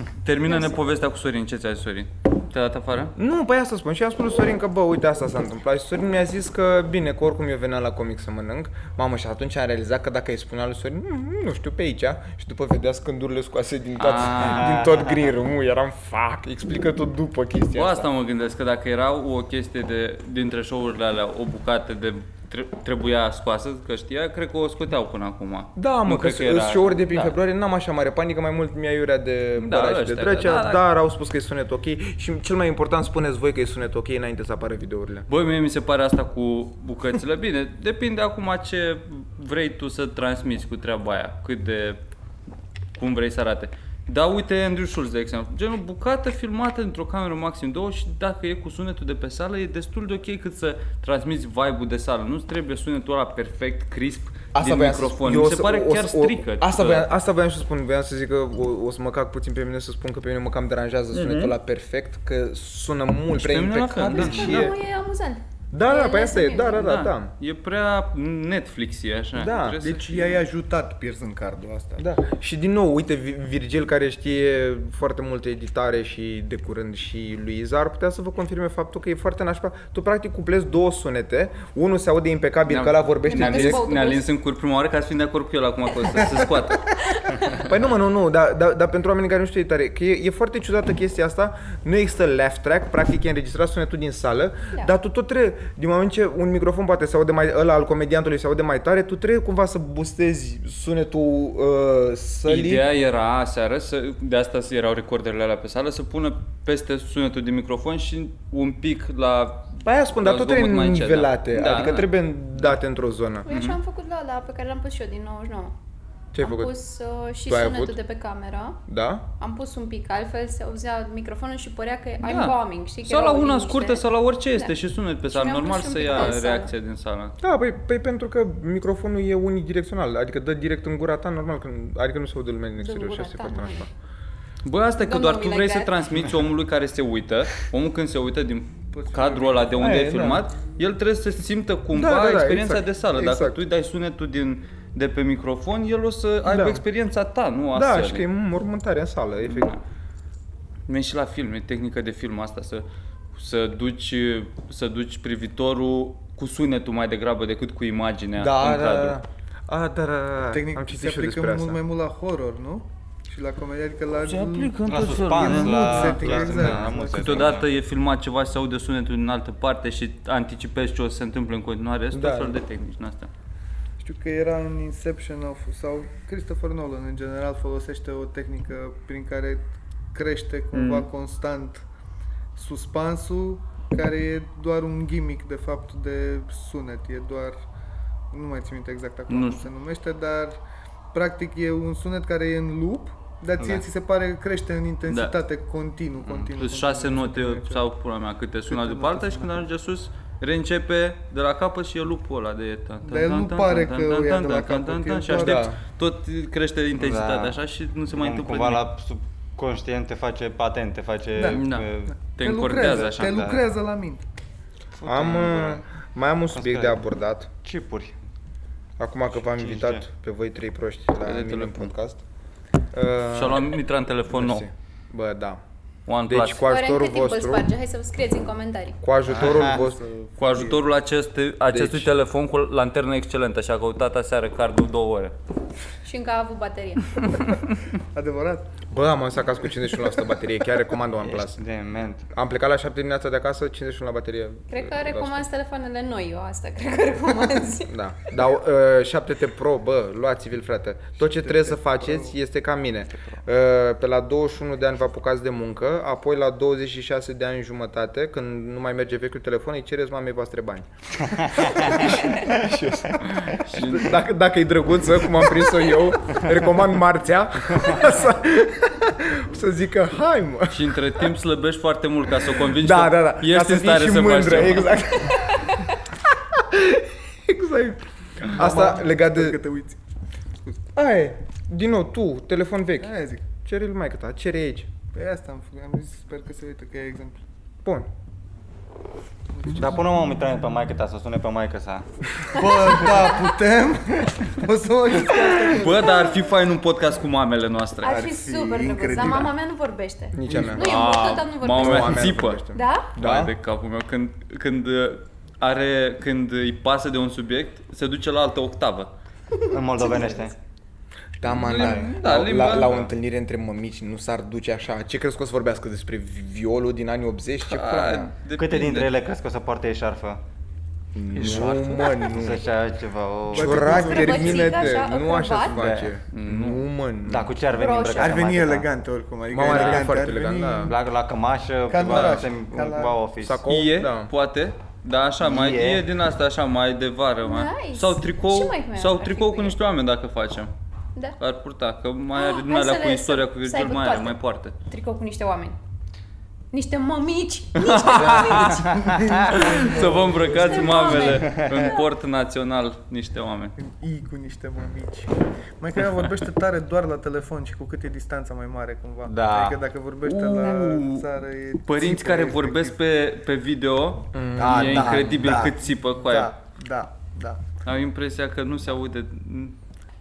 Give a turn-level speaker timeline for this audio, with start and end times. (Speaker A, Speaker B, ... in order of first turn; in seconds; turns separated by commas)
Speaker A: 0.2-3.1, Speaker B: 0.5-0.8, Speaker C: 3.1-18.1, Speaker A: 14.0-14.8, Speaker D: 14.4-15.3, Speaker A: 17.7-27.4, Speaker C: 25.8-35.3, Speaker A: 29.6-30.8, Speaker A: 35.3-42.0, Speaker A: 43.0-57.1, Speaker C: 54.5-64.8, Speaker A: 61.1-61.5, Speaker A: 63.3-64.7, Speaker B: 64.1-66.8, Speaker D: 64.2-64.5, Speaker C: 65.7-67.3, Speaker A: 66.7-70.4, Speaker C: 69.3-69.8, Speaker E: 69.8-72.0, Speaker C: 72.0-83.9, Speaker A: 82.7-87.6, Speaker B: 83.2-84.3, Speaker B: 87.1-87.4, Speaker C: 87.5-102.8, Speaker A: 102.5-112.1, Speaker C: 109.8-113.5, Speaker B: 113.5-115.7, Speaker A: 113.5-113.8, Speaker C: 116.3-116.7, Speaker B: 116.4-118.8, Speaker C: 117.4-118.0, Speaker C: 118.9-119.2, Speaker B: 119.4-124.0, Speaker A: 122.2-127.4, Speaker B: 125.2-126.7, Speaker C: 127.4-133.9, Speaker B: 132.8-133.9, Speaker A: 134.6-148.2, Speaker B: 135.0-135.9, Speaker E: 138.9-139.8, Speaker C: 139.8-140.5, Speaker C: 141.9-143.6, Speaker C: 146.5-146.8, Speaker C: 147.7-149.8, Speaker A: 149.4-149.8, Speaker A: 150.9-159.2, Speaker C: 158.3-161.8, Speaker E: 160.5-167.6, Speaker A: 164.2-173.3, Speaker D: 164.8-167.7, Speaker C: 166.2-166.9, Speaker C: 172.1-172.6, Speaker E: 174.0-181.8, Speaker A: 180.7-181.1, Speaker E: 182.5-187.6, Speaker E: 188.3-190.6, Speaker A: 189.3-189.7, Speaker E: 191.1-197.8, Speaker D: 193.6-193.8, Speaker A: 195.1-195.4, Speaker A: 196.2-208.8, Speaker E: 198.7-199.5, Speaker E: 203.0-205.6, Speaker C: 205.3-205.8, Speaker D: 206.9-207.6, Speaker D: 208.1-212.1, Speaker E: 211.3-214.2, Speaker A: 211.5-213.4, Speaker D: 212.8-213.7, Speaker D: 214.9-215.8, Speaker C: 215.1-217.5, Speaker D: 216.5-217.0, Speaker D: 217.6-218.2, Speaker C: 219.0-222.2, Speaker D: 219.3-220.1, Speaker A: 221.2-221.9, Speaker C: 222.9-223.7, Speaker A: 223.3-224.7, Speaker C: 224.3-225.6, Speaker A: 226.1-226.6, Speaker C: 226.2-227.7, Speaker B: 226.7-229.0, Speaker C: 229.0-230.0, Speaker E: 229.3-230.8, Speaker D: 229.4-229.7, Speaker A: 230.4-235.3, Speaker C: 231.7-232.1, Speaker B: 236.0-237.3, Speaker E: 238.0-238.7, Speaker C: 238.9-241.6, Speaker D: 241.2-242.2, Speaker C: 242.3-245.5, Speaker B: 244.7-248.4, Speaker C: 247.9-271.2, Speaker E: 251.2-252.3, Speaker D: 261.5-262.1, Speaker A: 263.4-264.2, Speaker A: 270.7-275.2, Speaker C: 272.7-279.6, Speaker E: 278.5-280.0, Speaker C: 280.9-284.9, Speaker E: 283.0-283.4, Speaker E: 285.1-287.4, Speaker E: 289.5-289.9, Speaker D: 289.7-292.1, Speaker E: 292.5-296.2, Speaker B: 292.6-293.4, Speaker A: 295.7-298.2, Speaker B: 298.0-303.1, Speaker E: 298.2-299.5, Speaker A: 299.1-299.4, Speaker C: 300.3-303.5, Speaker E: 300.5-300.8, Speaker A: 300.7-302.6, Speaker A: 303.1-309.1, Speaker D: 309.7-310.5, Speaker B: 310.0-310.5, Speaker C: 311.4-318.3, Speaker A: 311.4-313.1, Speaker D: 311.7-312.1, Speaker A: 317.6-319.1, Speaker D: 318.6-320.4, Speaker C: 321.1-322.6, Speaker A: 321.3-322.3, Speaker D: 322.3-324.3, Speaker E: 323.5-324.7, Speaker C: 323.5-327.5, Speaker B: 323.9-325.8, Speaker D: 325.7-326.1, Speaker A: 326.3-326.8, Speaker D: 327.2-328.9, Speaker B: 327.7-328.4, Speaker E: 328.1-330.9, Speaker C: 329.5-330.9, Speaker D: 329.6-330.0, Speaker D: 330.8-333.6, Speaker E: 331.9-333.1, Speaker A: 332.1-332.4, Speaker C: 333.4-334.3, Speaker A: 333.7-340.7, Speaker D: 335.4-336.1, Speaker B: 337.4-339.8, Speaker A: 341.4-344.8, Speaker B: 342.3-344.3, Speaker B: 344.9-345.8, Speaker B: 346.7-349.0, Speaker A: 347.8-348.9, Speaker D: 348.7-349.4, Speaker E: 348.8-351.1, Speaker A: 349.5-353.8, Speaker B: 350.5-352.0, Speaker D: 351.4-351.9, Speaker E: 353.8-362.9, Speaker D: 359.2-359.8, Speaker A: 360.2-361.2, Speaker A: 361.9-366.5, Speaker C: 364.3-365.3, Speaker E: 364.6-367.6, Speaker D: 364.8-365.1, Speaker A: 367.8-369.8